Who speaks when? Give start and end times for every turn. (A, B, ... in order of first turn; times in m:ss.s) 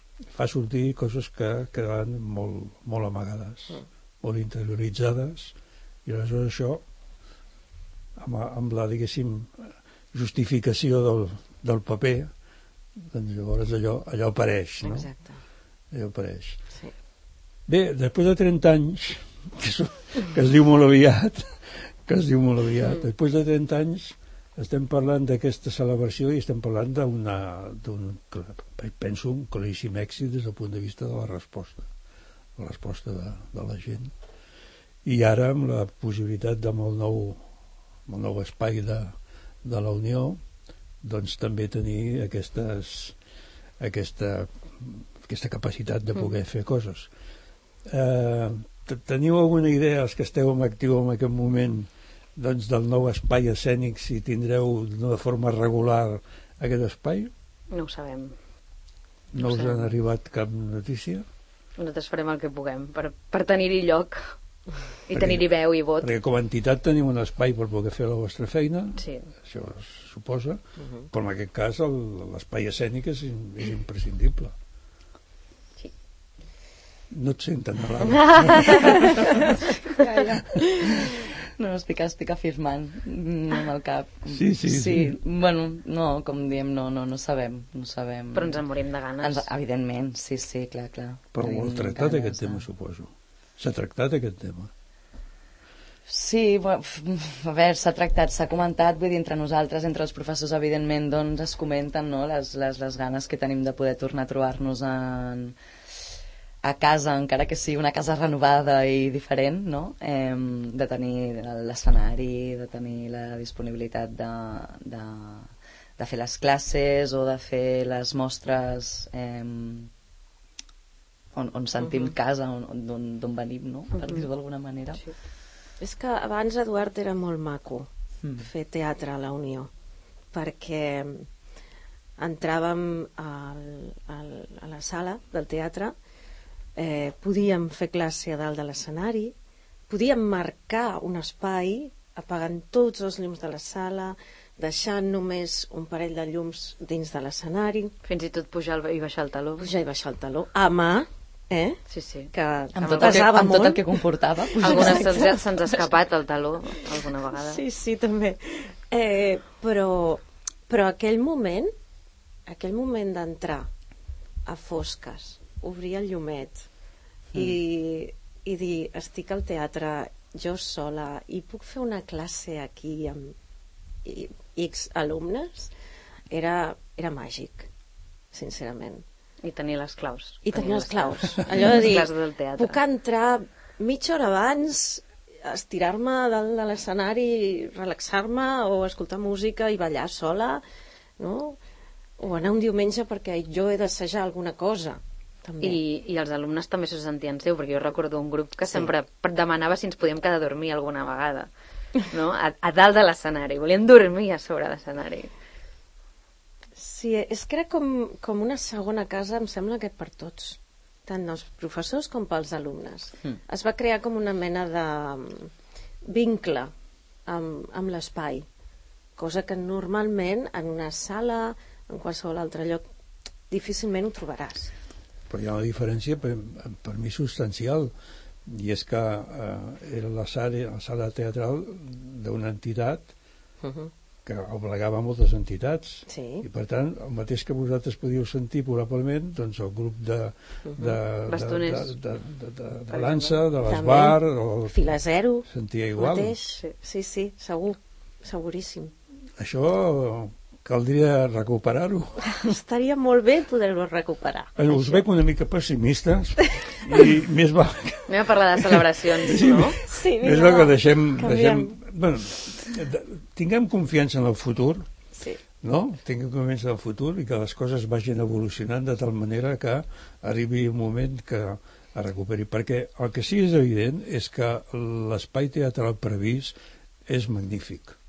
0:00.3-0:06.8 A
0:08.2-0:12.3 A
0:13.0-0:15.1 A
0:14.8-0:15.4 B
0:15.9-0:16.6 A
0:17.7-0:31.9 A
0:32.6-0:34.1 A
0:35.0-0:37.4 A
0:38.1-0:40.4 A
0:41.0-0:43.2 A
0:43.8-0:47.1 A
0:47.8-0:57.3 A
0:57.7-0:58.3 C
0:59.3-1:01.2 A
0:59.4-1:00.0 C
1:01.8-1:04.4 C
1:05.0-1:06.1 C
1:05.1-1:05.5 A
1:06.0-1:14.5 A
1:09.0-1:09.2 C
1:10.8-1:11.1 B
1:17.1-1:19.3 A
1:18.2-1:19.1 C
1:19.9-1:28.6 D
1:20.1-1:20.4 B
1:24.3-1:25.2 A
1:28.3-1:29.5 C
1:29.2-1:32.6 D
1:31.3-1:34.7 A
1:36.1-1:45.5 D
1:46.6-1:59.9 D
2:01.3-2:05.0 D
2:01.8-2:02.1 B
2:03.9-2:04.3 C
2:05.8-2:09.7 B
2:08.2-2:08.5 D
2:10.3-2:11.3 B
2:12.2-2:15.9 B
2:16.8-2:19.3 B
2:19.9-2:27.9 B
2:28.0-2:29.7 C
2:29.6-2:31.8 B
2:31.9-2:32.3 C
2:32.3-2:34.0 B
2:32.7-2:35.2 D
2:32.8-2:33.3 C
2:34.5-2:35.9 B
2:34.6-2:37.6 C
2:36.7-2:41.7 B
2:42.5-2:43.7 B
2:44.5-2:46.7 B
2:47.3-2:53.3 B
2:54.0-2:55.7 B
2:56.3-2:57.7 B
2:58.3-2:59.0 B
2:59.4-3:02.8 C
3:00.4-3:10.6 B
3:11.2-3:11.6 B
3:12.2-3:15.8 B
3:15.6-3:25.3 C
3:18.6-3:18.9 B
3:26.8-3:35.5 B
3:36.1-3:36.7 B
3:37.3-3:38.4 B
3:39.2-3:42.8 B
3:43.5-3:44.7 B
3:45.3-3:47.9 A
3:48.4-3:53.1 A
3:53.6-3:53.9 B
3:54.2-4:04.8 A
3:56.1-3:56.5 B
4:00.7-4:01.0 B
4:01.2-4:01.9 C
4:02.9-4:03.4 C
4:03.6-4:08.9 B
4:05.5-4:06.4 A
4:09.4-4:12.4 A
4:12.3-4:15.0 B
4:14.6-4:24.9 A
4:18.1-4:19.8 C
4:19.8-4:21.8 B
4:25.2-4:25.4 B
4:25.6-4:36.5 A
4:37.0-4:38.0 A